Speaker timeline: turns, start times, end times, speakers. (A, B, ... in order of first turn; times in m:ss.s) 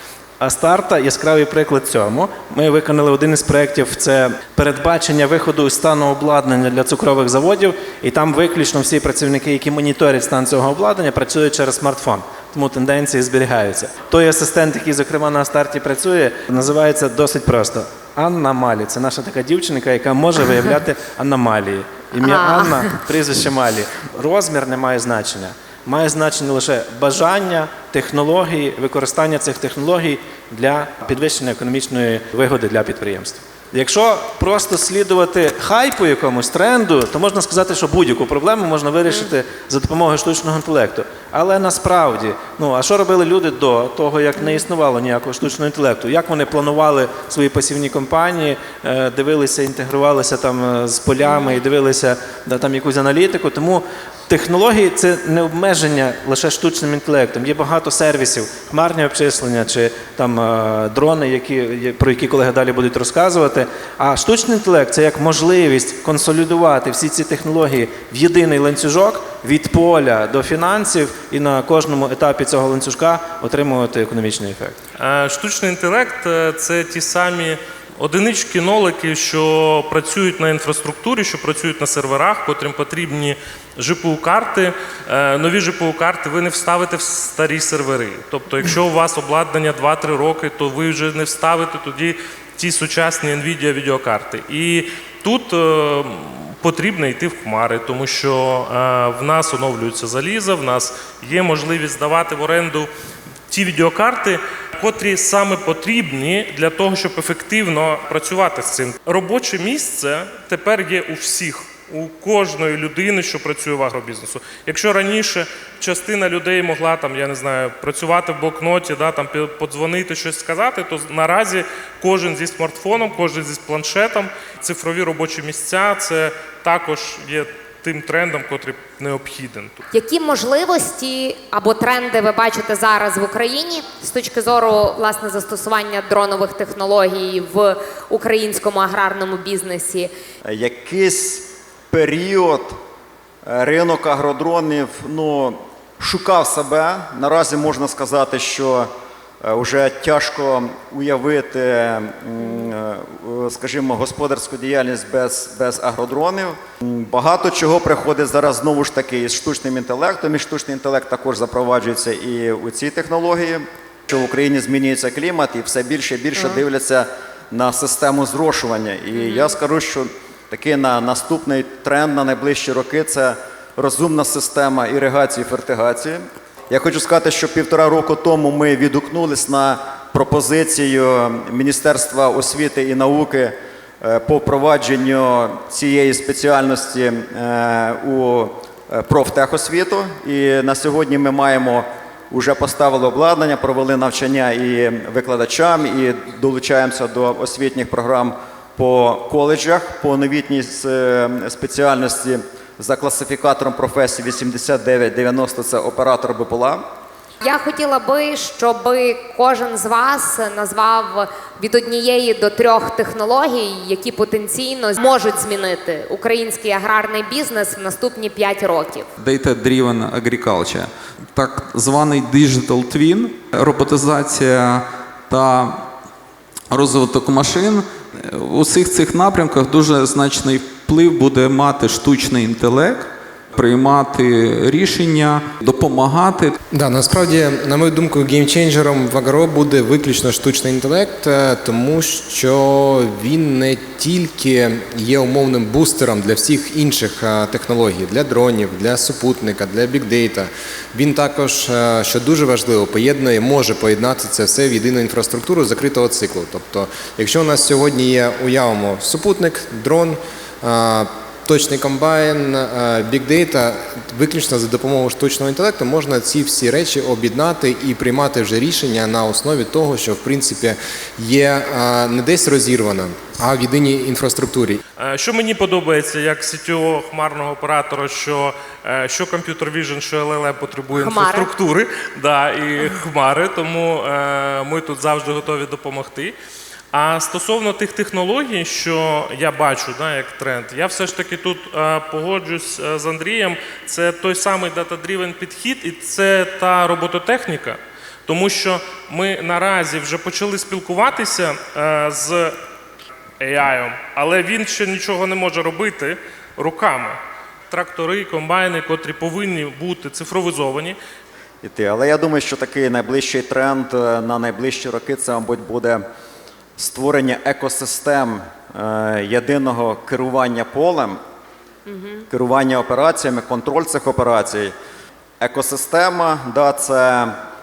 0:00.4-1:14.8 A
0:22.2-0:23.0 B
1:15.0-1:42.9 C
1:43.5-2:09.8 C
2:09.9-2:20.1 B
2:20.5-2:22.8 D
2:23.5-2:28.9 D
2:29.4-3:26.8 D
2:49.2-2:49.5 B
3:27.4-3:39.1 B
3:39.2-3:45.9 E
3:46.7-3:56.6 E
3:56.7-4:34.8 F
4:35.0-4:46.4 C
4:40.9-4:41.5 B
4:46.9-5:02.6 C
5:03.4-5:07.2 C
5:07.7-5:11.0 C
5:11.6-5:16.0 D
5:16.8-5:21.2 D
5:21.9-5:22.2 B
5:22.3-5:24.7 D
5:25.4-5:27.4 D